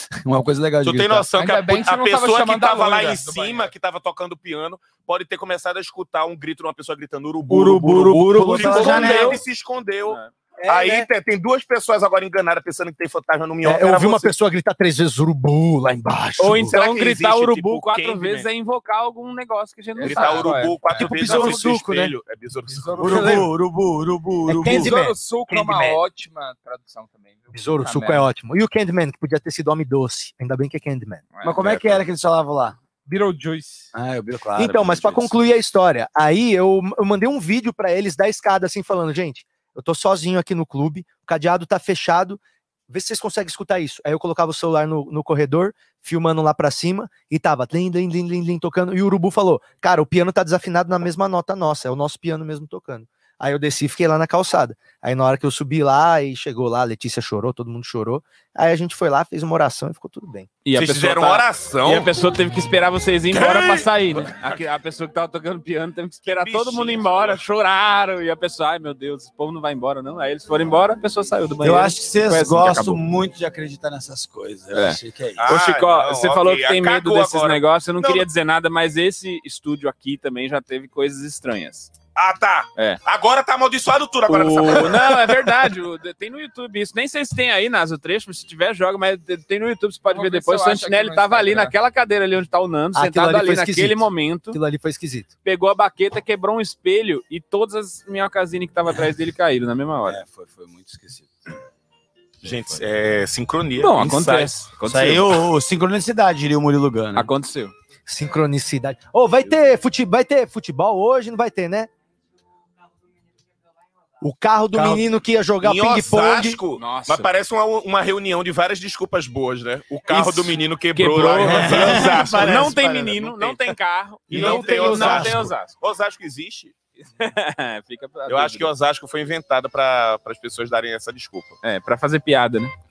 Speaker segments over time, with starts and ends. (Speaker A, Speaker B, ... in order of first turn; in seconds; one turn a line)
Speaker A: 0.2-1.3
Speaker B: 0.8-14.3
Speaker C: 1.3-3.7
Speaker A: 7.5-9.4
Speaker D: 7.9-9.4
Speaker E: 10.6-11.1
Speaker E: 13.6-16.8
Speaker D: 16.4-20.6
Speaker B: 16.6-18.5
Speaker C: 20.0-21.1
Speaker B: 20.0-23.5
Speaker E: 21.0-22.1
Speaker A: 21.2-21.8
Speaker C: 22.7-23.5
Speaker A: 23.0-26.0
Speaker E: 24.5-25.1
Speaker C: 24.7-28.3
Speaker E: 27.5-31.3
Speaker C: 31.3-31.6
Speaker A: 31.4-32.8
Speaker B: 31.6-32.0
Speaker C: 33.0-33.9
Speaker A: 33.9-35.4
Speaker E: 34.6-60.5
Speaker D: 60.6-73.0
Speaker B: 60.7-62.1
Speaker B: 63.3-64.4
Speaker B: 66.3-67.4
Speaker A: 71.6-75.5
Speaker D: 74.7-81.9
Speaker B: 75.4-78.3
Speaker B: 82.2-85.3
Speaker D: 84.3-94.6
Speaker C: 90.1-91.7
Speaker E: 93.0-95.3
Speaker D: 95.5-100.2
Speaker A: 100.0-101.3
Speaker A: 102.4-102.8
Speaker B: 102.4-104.5
Speaker D: 103.8-105.4
Speaker A: 104.8-107.3
Speaker D: 107.2-107.7
Speaker E: 108.1-111.9
Speaker E: 114.2-116.6
Speaker A: 114.7-115.0
Speaker B: 115.6-123.6
Speaker D: 116.8-117.3
Speaker D: 120.1-125.7
Speaker A: 121.4-123.4
Speaker A: 124.3-125.5
Speaker B: 124.3-126.7
Speaker D: 127.2-128.7
Speaker B: 128.3-131.6
Speaker D: 131.6-132.7